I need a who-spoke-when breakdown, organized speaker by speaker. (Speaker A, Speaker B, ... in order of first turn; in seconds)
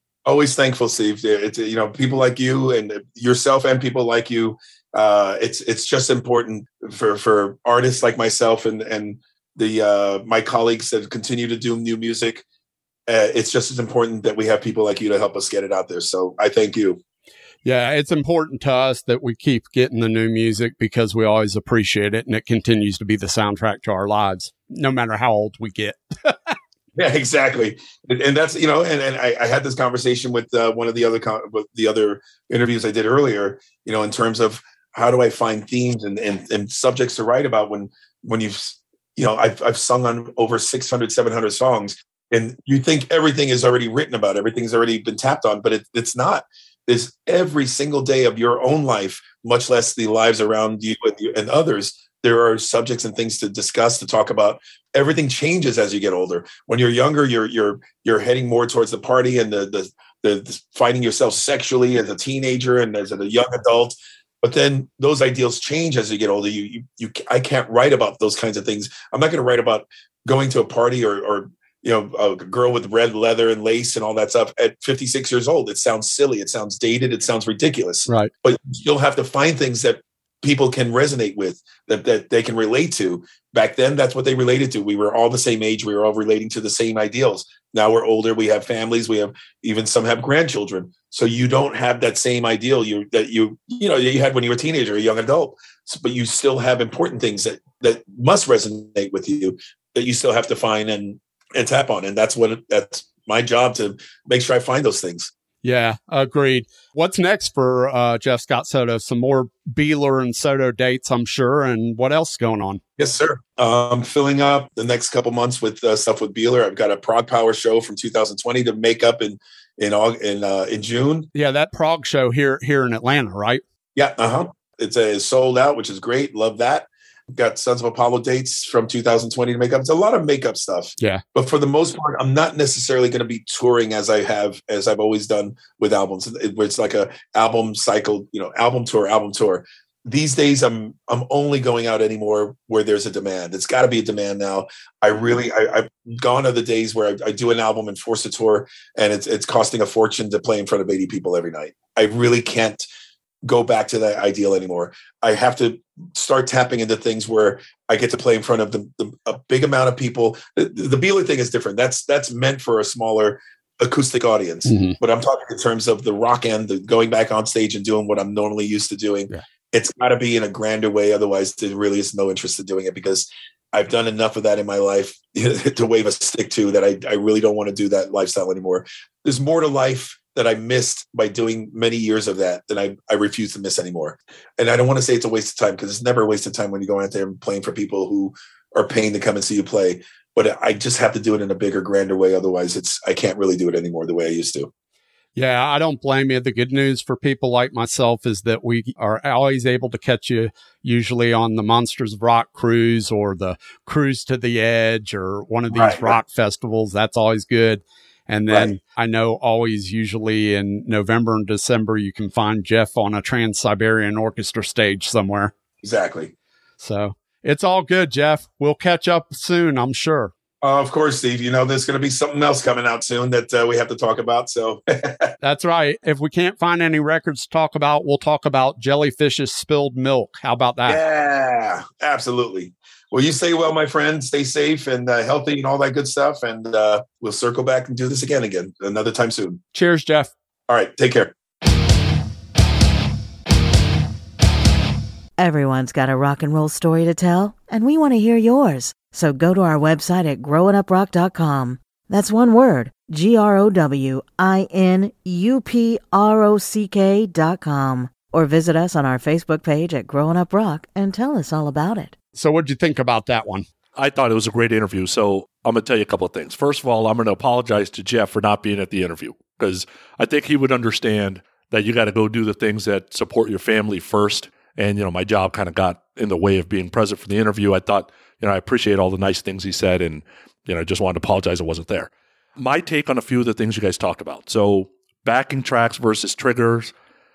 Speaker A: 0.2-12.4, 13.1-17.0, 26.9-105.3, 113.0-121.3, 124.0-152.8, 153.4-194.7, 205.7-206.2, 215.8-216.3, 220.6-225.3, 230.9-239.6, 240.7-241.3
Speaker B: 17.6-26.5, 105.6-112.8, 121.3-123.6, 164.7-165.0, 195.3-215.5, 216.8-220.3, 225.4-231.0, 239.7-240.3, 262.4-263.6
Speaker C: 245.4-262.1
Speaker D: 263.9-286.9